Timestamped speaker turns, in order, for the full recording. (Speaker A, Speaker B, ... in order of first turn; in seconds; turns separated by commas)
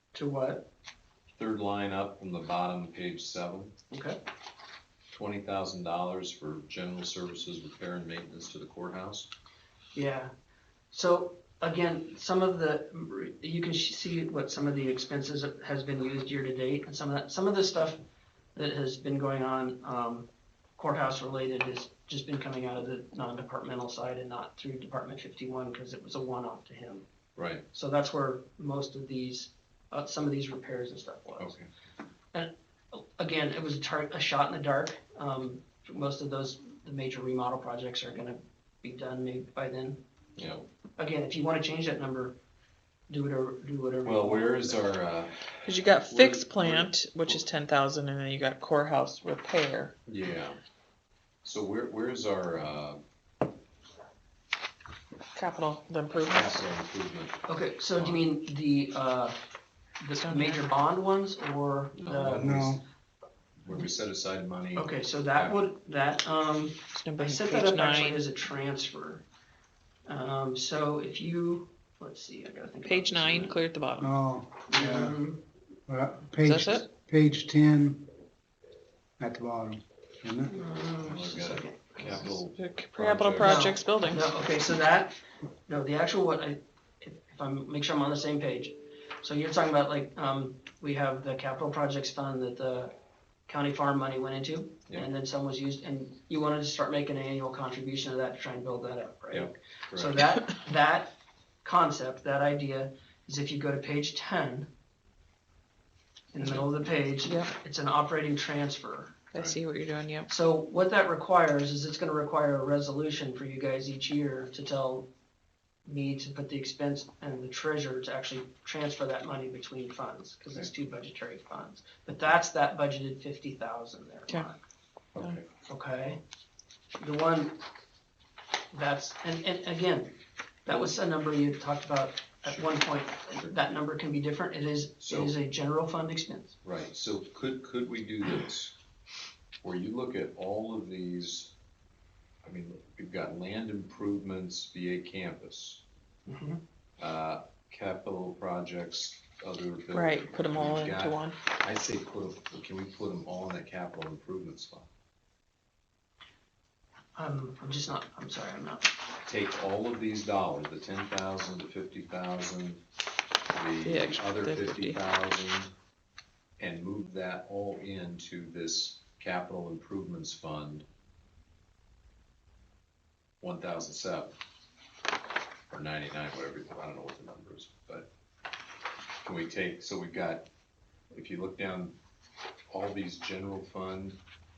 Speaker A: 0.1-0.7, Speaker B: 1.3-3.7, Speaker A: 3.9-4.2, Speaker B: 5.1-9.3, Speaker A: 9.9-10.3, Speaker A: 10.9-18.0, Speaker A: 18.6-27.1, Speaker B: 27.4-27.6, Speaker A: 27.7-31.6, Speaker B: 31.4-31.7, Speaker A: 32.3-40.0, Speaker B: 40.4-40.7, Speaker A: 41.0-42.4, Speaker A: 43.1-44.8, Speaker B: 44.0-47.4, Speaker C: 45.6-49.9, Speaker B: 50.1-50.6, Speaker B: 51.4-53.0, Speaker C: 55.4-56.6, Speaker B: 56.1-57.4, Speaker A: 57.5-59.4, Speaker B: 58.0-58.2, Speaker A: 60.0-62.6, Speaker C: 60.2-60.6, Speaker B: 62.0-62.8, Speaker D: 62.3-62.8, Speaker B: 63.6-65.6, Speaker A: 64.8-69.2, Speaker C: 66.9-68.2, Speaker A: 70.1-73.6, Speaker C: 72.8-74.1, Speaker D: 74.0-75.2, Speaker A: 74.7-75.4, Speaker D: 75.9-78.0, Speaker C: 76.4-76.9, Speaker D: 79.2-80.5, Speaker A: 80.5-82.4, Speaker B: 81.0-83.7, Speaker C: 82.1-84.3, Speaker A: 83.4-85.2, Speaker A: 85.7-92.9, Speaker A: 93.5-104.7, Speaker B: 99.3-100.2, Speaker A: 106.3-109.2, Speaker C: 109.3-110.3, Speaker A: 110.3-115.1, Speaker A: 115.9-124.6, Speaker B: 125.2-125.4, Speaker A: 125.7-126.2, Speaker A: 127.0-127.6, Speaker A: 128.7-136.6, Speaker B: 135.0-135.3, Speaker B: 136.6-138.8, Speaker B: 139.6-141.5, Speaker B: 142.4-145.8, Speaker A: 146.3-146.6, Speaker B: 147.0-154.9, Speaker C: 149.9-151.4, Speaker A: 157.2-158.9, Speaker B: 159.3-162.8, Speaker B: 163.5-165.7, Speaker C: 163.8-165.0, Speaker B: 166.6-170.8, Speaker B: 173.4-174.4, Speaker B: 175.7-178.1, Speaker B: 179.2-180.5, Speaker B: 181.1-181.9, Speaker B: 182.7-184.2